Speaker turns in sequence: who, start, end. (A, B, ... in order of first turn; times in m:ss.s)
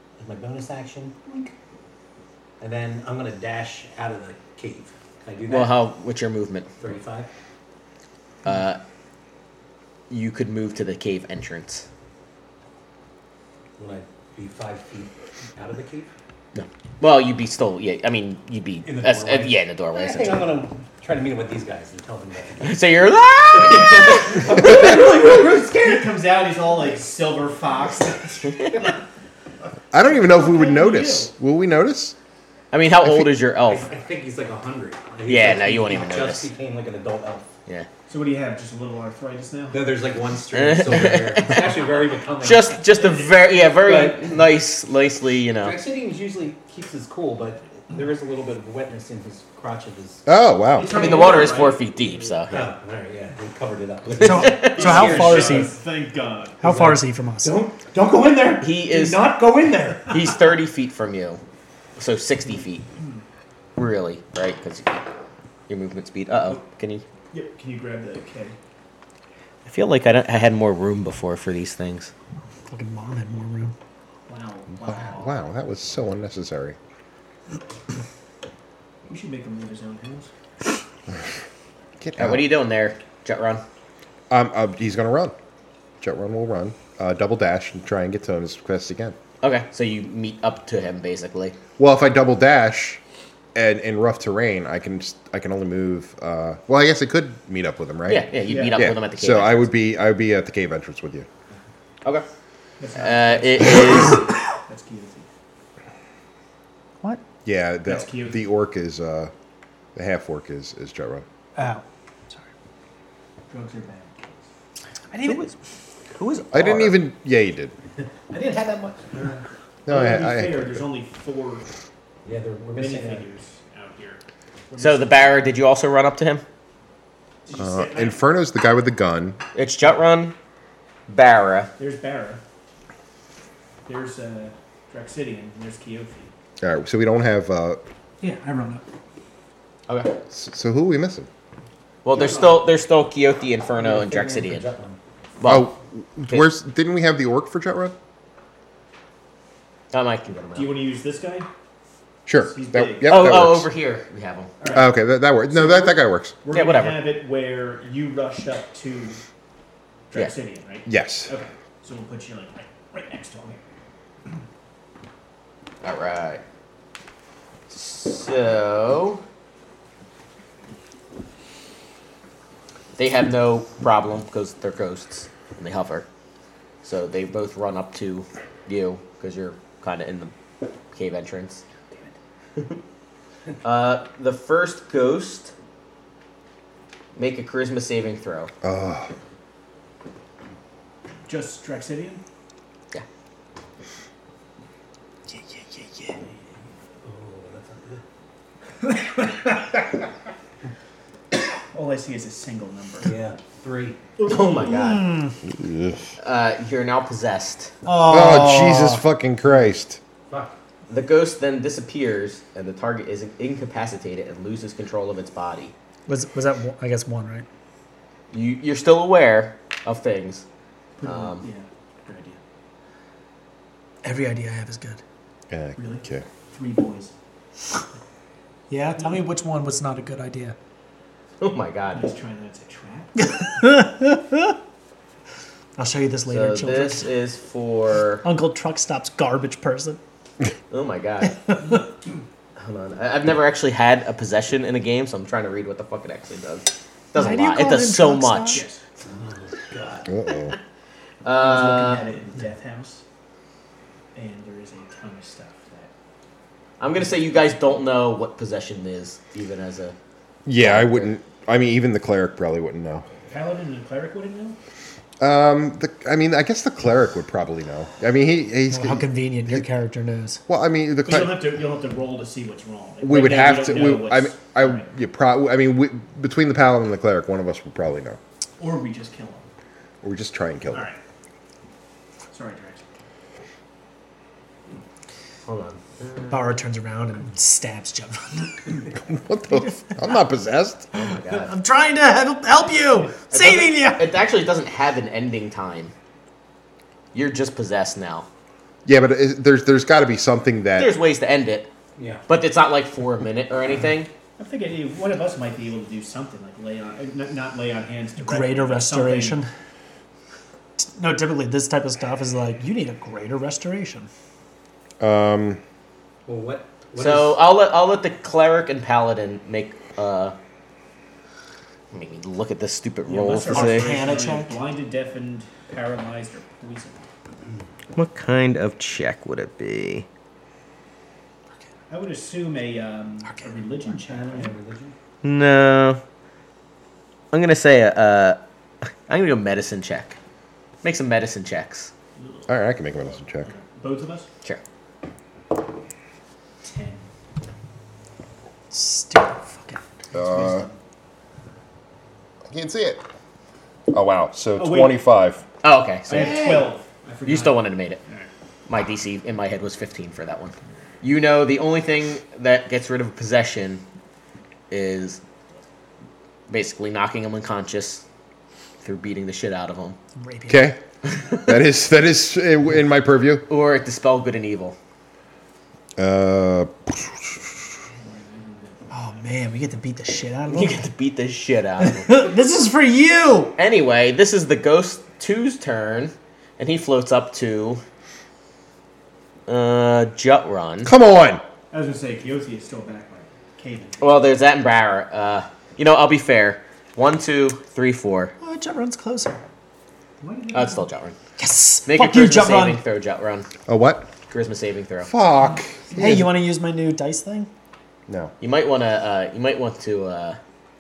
0:00.2-0:01.5 A
0:02.6-0:05.8 A
0:05.5-0:06.7 B
0:06.8-0:07.3 A
0:08.4-0:08.8 B
0:10.1-0:11.9 B
0:13.8-0:16.1 A
0:16.5-0:20.5 B
0:18.8-0:22.8 A
0:22.6-0:24.9 B
0:23.5-0:26.2 A
0:24.5-0:29.0 C
0:29.9-0:32.2 D
0:29.9-0:31.3 C
0:32.7-0:33.9 B
0:33.7-0:37.5 A
0:35.2-0:36.5 B
0:38.1-0:39.8 C
0:39.7-0:44.4 A
0:40.5-0:41.8 B
0:42.4-0:45.8 B
0:45.6-0:50.2 A
0:50.2-0:51.2 D
0:50.7-0:52.4 C
0:50.9-0:52.7 B
0:52.5-0:55.7 A
0:54.2-0:55.7 E
0:54.2-0:54.8 B
0:54.6-0:56.6 C
0:56.6-0:57.6 E
0:56.6-1:00.1 A
0:58.6-0:59.3 B
1:00.1-1:01.4 B
1:02.0-1:02.8 B
1:03.8-1:05.0 B
1:05.7-1:07.0 B
1:07.3-1:08.6 C
1:09.6-1:12.1 B
1:12.7-1:13.7 E
1:14.3-1:15.4 C
1:14.8-1:16.8 D
1:19.0-1:20.3 C
1:22.0-1:22.4 D
1:22.2-1:23.6 B
1:24.3-1:25.4 D
1:26.0-1:29.2 D
1:29.4-1:31.6 B
1:31.8-1:33.0 D
1:33.5-1:41.3 D
1:38.1-1:39.7 B
1:38.5-1:38.9 C
1:42.8-1:45.3 C
1:42.9-1:44.3 B
1:47.4-1:49.3 D
1:47.9-1:48.4 C
1:50.0-1:51.2 D
1:51.6-1:52.4 E
1:53.5-1:54.5 C
1:55.1-1:55.5 E
1:55.2-1:55.5 B
1:56.1-1:57.0 B
1:56.5-1:57.7 D
1:58.3-1:59.5 A
1:59.9-2:00.8 D
1:59.9-2:01.7 C
2:02.2-2:03.2 A
2:02.8-2:05.3 C
2:04.8-2:06.4 B
2:07.4-2:08.2 C
2:07.6-2:09.4 D
2:09.6-2:10.4 B
2:11.1-2:11.7 B
2:11.8-2:12.4 C
2:13.9-2:16.3 C
2:16.6-2:17.8 D
2:18.2-2:18.8 E
2:19.9-2:20.1 B
2:20.3-2:21.3 D
2:22.0-2:24.6 B
2:22.1-2:22.6 C
2:23.8-2:25.0 A
2:25.4-2:25.7 B
2:25.4-2:27.9 D
2:29.9-2:30.7 B
2:30.6-2:31.5 C
2:32.3-2:33.7 D
2:32.4-2:33.3 C
2:33.1-2:34.5 B
2:34.6-2:35.0 C
2:34.7-2:36.4 D
2:35.5-2:39.2 C
2:36.5-2:37.1 B
2:40.1-2:43.6 C
2:40.9-2:41.3 D
2:45.8-2:46.4 B
2:47.7-2:49.2 B
2:53.0-2:56.1 B
2:56.8-3:00.3 B
3:00.9-3:01.6 B
3:03.6-3:05.5 B
3:07.2-3:08.5 B
3:08.6-3:09.1 D
3:11.3-3:12.2 C
3:15.3-3:16.2 E
3:17.0-3:18.0 A
3:18.9-3:19.5 C
3:21.7-3:23.2 C
3:23.0-3:24.0 A
3:24.2-3:24.7 C
3:24.2-3:25.2 B
3:24.7-3:25.3 E
3:25.5-3:26.0 D
3:26.2-3:27.7 B
3:27.8-3:29.0 E
3:28.1-3:30.0 D
3:30.3-3:30.5 A
3:30.9-3:35.7 B
3:36.1-3:37.4 E
3:38.3-3:40.4 B
3:41.0-3:42.4 C
3:41.0-3:41.4 B
3:44.0-3:45.0 E
3:45.5-3:46.3 D
3:45.8-3:47.1 C
3:48.7-3:50.6 E
3:51.4-3:52.1 B
3:51.9-3:53.1 C
3:53.2-3:54.6 E
3:55.8-3:57.1 E
3:56.3-3:58.2 B
3:58.2-4:00.0 E
4:00.7-4:01.4 B
4:01.3-4:01.8 E
4:02.6-4:08.6 B
4:07.1-4:08.6 E
4:08.5-4:08.8 C
4:09.0-4:10.1 A
4:10.1-4:10.6 D
4:11.2-4:12.1 B
4:11.4-4:13.0 C
4:14.1-4:15.9 C
4:16.8-4:20.0 B
4:20.4-4:23.1 D
4:20.6-4:21.1 B
4:23.3-4:24.6 C
4:25.2-4:29.7 D
4:28.7-4:30.4 E
4:30.5-4:31.6 D
4:31.0-4:34.9 C
4:33.0-4:38.2 D
4:38.6-4:39.4 C
4:40.0-4:40.9 D
4:40.7-4:41.0 C
4:42.3-4:42.8 C
4:45.4-4:46.6 B
4:46.3-4:48.9 E
4:49.0-4:50.9 D
4:49.6-4:49.9 E
4:50.9-4:51.5 B
4:51.3-4:54.1 E
4:53.3-4:55.9 B
4:57.1-4:58.3 B
4:58.9-5:00.9 D
5:00.8-5:01.7 B
5:02.0-5:02.2 A
5:02.3-5:04.1 B
5:04.4-5:09.4 C
5:08.2-5:09.5 E
5:10.8-5:14.1 E
5:15.0-5:15.6 D
5:16.3-5:17.4 A
5:17.0-5:20.4 B
5:21.9-5:24.0 B
5:23.1-5:27.0 C
5:23.4-5:24.6 E
5:27.9-5:30.1 B
5:31.9-5:34.5 C
5:33.8-5:34.9 A
5:35.2-5:36.0 B
5:37.3-5:38.4 B
5:39.1-5:40.2 B
5:40.8-5:41.9 B
5:42.2-5:42.5 C
5:42.5-5:43.5 D
5:43.4-5:44.3 C
5:46.6-5:47.0 C
5:48.7-5:49.8 E
5:50.1-5:50.7 D
5:50.1-5:50.8 C
5:52.5-5:53.0 D
5:53.9-5:55.4 D
5:54.6-5:55.0 C
5:55.6-5:56.5 B
5:56.1-5:58.3 C
5:56.1-5:56.7 A
5:57.2-5:58.0 B
5:58.7-6:03.8 B
6:04.7-6:05.2 B
6:06.5-6:08.0 B
6:08.8-6:10.0 B
6:10.2-6:10.7 E
6:10.5-6:10.8 D
6:11.4-6:13.4 D
6:13.5-6:14.8 B
6:16.0-6:17.6 D
6:17.9-6:18.9 C
6:18.9-6:20.9 E
6:20.5-6:22.3 B
6:21.8-6:23.5 E
6:23.6-6:27.8 B
6:29.5-6:30.9 B
6:30.8-6:31.4 D
6:31.7-6:34.2 C
6:34.0-6:38.3 B
6:38.4-6:39.4 E
6:40.2-6:40.9 C
6:40.5-6:41.2 B
6:41.4-6:42.8 E
6:41.9-6:43.5 B
6:43.7-6:44.1 D
6:44.3-6:45.1 B
6:45.0-6:46.3 D
6:45.9-6:47.5 E
6:48.1-6:48.3 D
6:48.4-6:50.4 B